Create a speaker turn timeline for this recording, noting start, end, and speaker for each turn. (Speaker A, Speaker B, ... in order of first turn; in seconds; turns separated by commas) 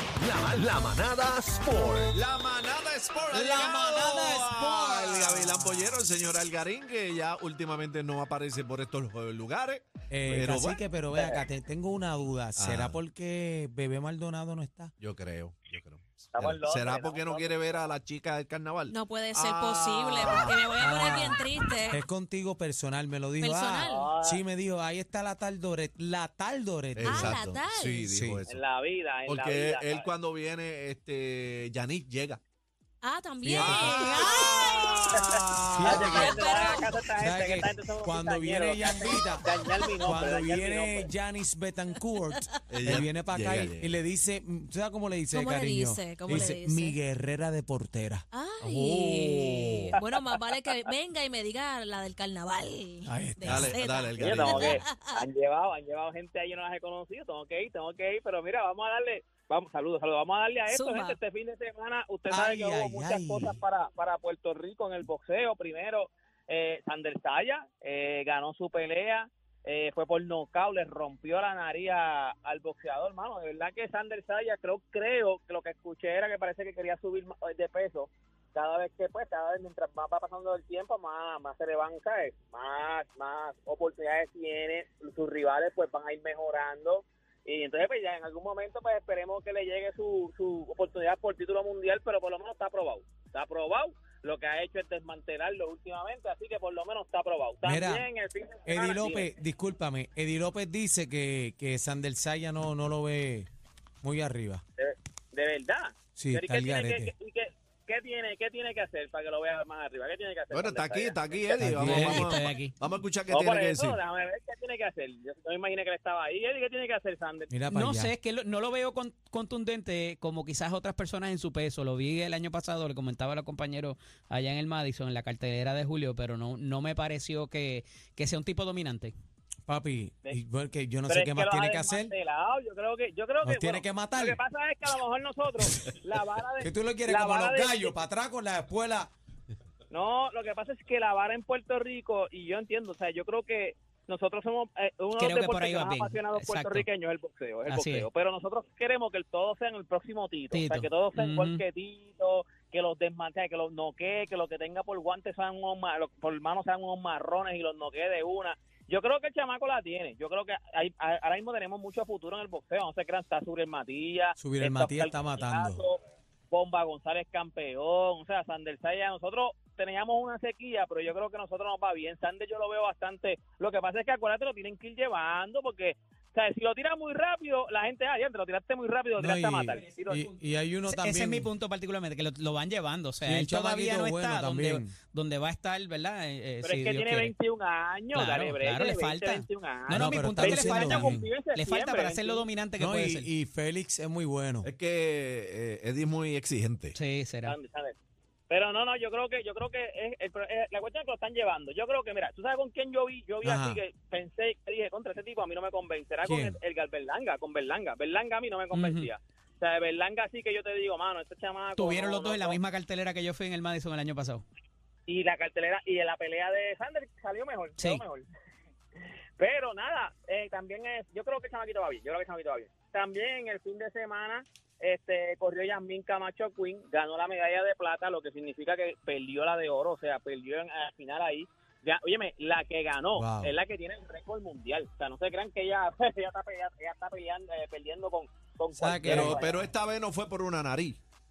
Speaker A: 0.2-2.1, Speaker B: 2.1-10.8, Speaker C: 3.3-6.0, Speaker C: 10.1-14.9, Speaker D: 11.1-11.4, Speaker B: 12.6-13.0, Speaker B: 15.0-20.6, Speaker D: 16.3-17.9, Speaker E: 18.9-22.0, Speaker C: 20.8-27.4, Speaker E: 23.4-24.1, Speaker D: 23.9-24.4, Speaker B: 27.0-28.6, Speaker E: 27.0-28.1, Speaker C: 28.1-28.4, Speaker D: 28.5-30.1, Speaker B: 29.2-32.4, Speaker E: 33.0-35.4, Speaker C: 33.4-34.1, Speaker B: 33.6-35.8, Speaker D: 35.1-41.1, Speaker C: 35.7-36.4, Speaker E: 35.9-36.9, Speaker C: 37.2-50.0, Speaker B: 42.7-44.0, Speaker E: 45.3-47.0, Speaker E: 48.3-55.2, Speaker C: 53.0-53.8, Speaker B: 53.4-54.8, Speaker D: 54.2-99.3, Speaker E: 60.7-61.2, Speaker C: 62.3-63.6, Speaker C: 97.6-98.1, Speaker C: 98.7-103.5, Speaker C: 104.0-104.6, Speaker D: 104.8-111.9, Speaker C: 106.2-107.1, Speaker B: 110.5-114.0, Speaker C: 111.6-112.3, Speaker F: 111.8-112.7, Speaker D: 113.3-117.5, Speaker C: 117.5-118.1, Speaker F: 117.7-129.1, Speaker C: 129.7-132.1, Speaker D: 131.1-138.0, Speaker C: 133.4-134.4, Speaker C: 136.6-139.1, Speaker D: 139.9-180.3, Speaker F: 145.2-146.9, Speaker F: 147.7-148.1, Speaker F: 150.5-151.6, Speaker C: 164.4-165.8, Speaker C: 179.2-181.5, Speaker F: 180.8-187.3, Speaker C: 183.2-184.9, Speaker D: 186.6-192.5, Speaker F: 188.1-193.3, Speaker C: 189.9-191.3, Speaker C: 192.8-194.7, Speaker B: 194.6-196.9, Speaker F: 196.9-197.6, Speaker D: 197.4-197.9, Speaker D: 198.5-212.6, Speaker C: 203.4-203.8, Speaker C: 206.2-206.6, Speaker F: 208.7-209.1, Speaker F: 211.8-214.4, Speaker D: 215.1-218.3, Speaker D: 219.4-239.7, Speaker C: 233.1-233.5, Speaker C: 238.8-239.4, Speaker B: 239.0-241.0